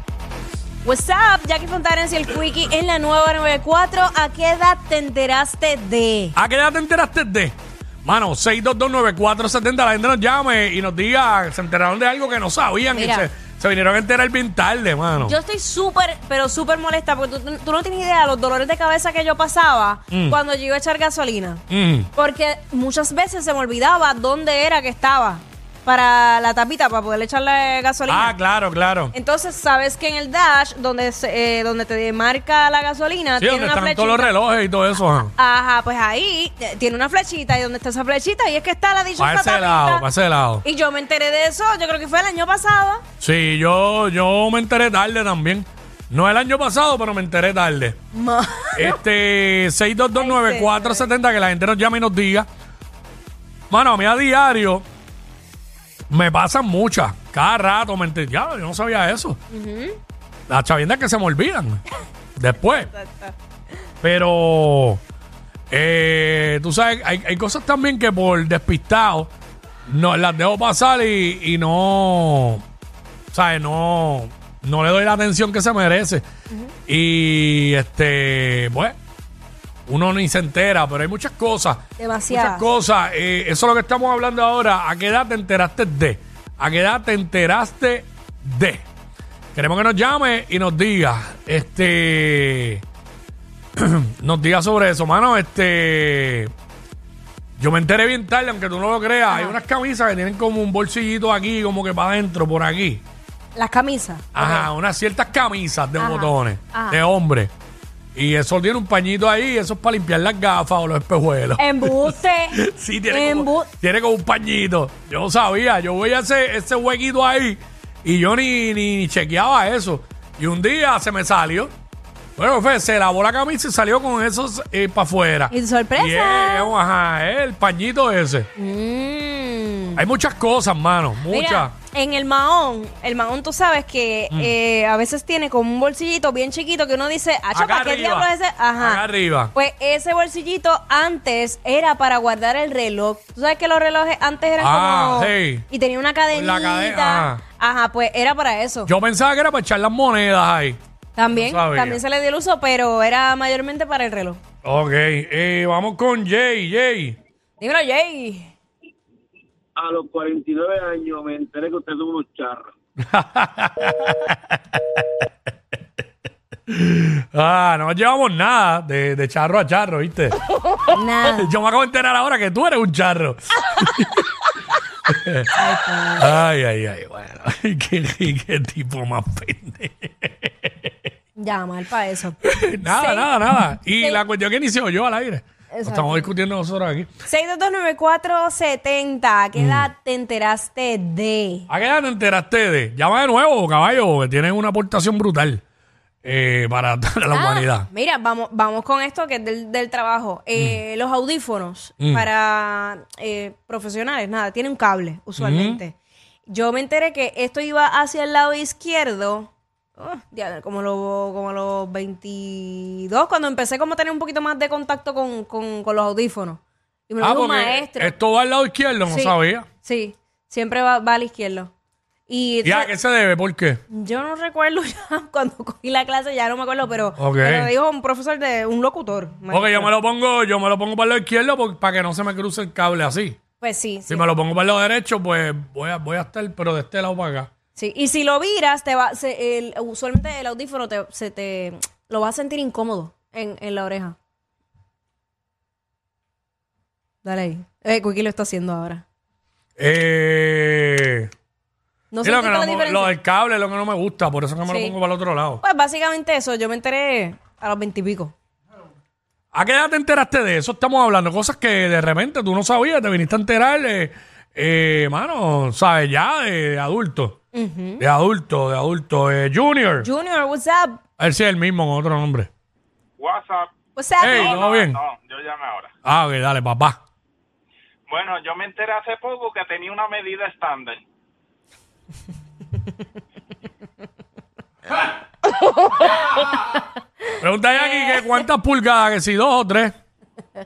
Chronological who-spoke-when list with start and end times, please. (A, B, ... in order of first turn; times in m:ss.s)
0:00.8-0:06.4 A
0:06.4-0:15.4 B
0:12.9-0:13.3 A
0:15.2-0:21.6 A
0:20.1-0:20.4 B
0:21.7-0:22.1 B
0:22.1-0:28.4 A
0:28.1-0:29.1 B
0:29.1-0:34.4 A
0:33.4-0:35.3 B
0:35.2-0:40.1 A
0:39.2-0:40.6 B
0:40.6-0:43.0 A
0:43.2-0:48.0 B
0:48.1-0:49.0 A
0:48.8-0:52.5 B
0:50.2-0:51.1 A
0:53.7-0:54.8 B
0:56.1-0:59.4 B
0:59.5-1:00.0 A
1:00.5-1:01.8 B
1:02.4-1:02.9 B
1:02.6-1:03.4 A
1:04.0-1:05.0 B
1:05.7-1:09.3 B
1:09.9-1:12.6 B
1:13.3-1:16.2 B
1:16.9-1:19.0 B
1:19.9-1:28.9 B
1:22.0-1:22.7 A
1:29.6-1:32.8 B
1:33.8-1:36.5 B
1:37.6-1:43.0 B
1:39.3-1:39.6 A
1:43.6-1:44.7 A
1:44.3-1:47.5 B
1:46.0-1:47.0 A
1:48.2-2:01.7 B
1:51.6-1:53.7 A
2:02.4-2:08.5 B
2:05.5-2:06.8 A
2:08.6-2:10.0 A
2:10.0-2:11.8 B
2:11.3-2:28.9 A
2:17.5-2:19.5 B
2:24.6-2:25.6 B
2:26.3-2:27.4 B
2:28.9-2:30.8 B
2:31.2-2:34.4 A
2:31.3-2:32.0 B
2:34.6-2:37.2 B
2:37.6-2:38.5 A
2:39.8-2:42.6 C
2:43.1-2:45.0 B
2:46.7-2:50.4 B
2:50.9-2:51.5 A
2:51.2-2:54.3 B
2:55.1-2:55.5 B
2:55.6-2:56.4 A
2:56.2-3:00.9 B
3:01.4-3:03.3 A
3:02.4-3:07.1 B
3:05.7-3:06.3 A
3:07.2-3:11.7 A
3:09.6-3:09.9 B
3:11.7-3:15.6 B
3:16.2-3:17.9 B
3:17.3-3:38.2 A
3:20.6-3:20.8 B
3:22.0-3:22.3 B
3:25.4-3:25.8 B
3:37.2-3:39.7 B
3:39.1-3:41.7 A
3:42.3-3:42.9 A
3:42.6-3:43.8 B
3:43.9-3:49.9 A
3:47.2-3:47.7 B
3:49.5-3:53.4 B
3:53.6-3:54.3 A
3:54.1-3:57.5 B
3:57.8-4:04.2 A
4:07.2-4:09.0 A
4:09.8-4:11.3 B
4:12.1-4:13.1 A
4:12.2-4:15.6 B
4:14.7-4:15.0 A
4:15.6-4:18.4 A
4:19.5-4:27.4 B
4:27.5-4:28.0 A
4:28.0-4:30.1 B
4:30.0-4:31.0 A
4:31.2-4:32.5 B
4:33.2-4:33.7 D
4:34.0-4:34.6 A
4:34.2-4:35.0 B
4:34.2-4:35.9 D
4:36.0-4:37.0 B
4:38.1-4:41.0 D
4:47.4-4:49.9 B
4:47.7-4:48.4 A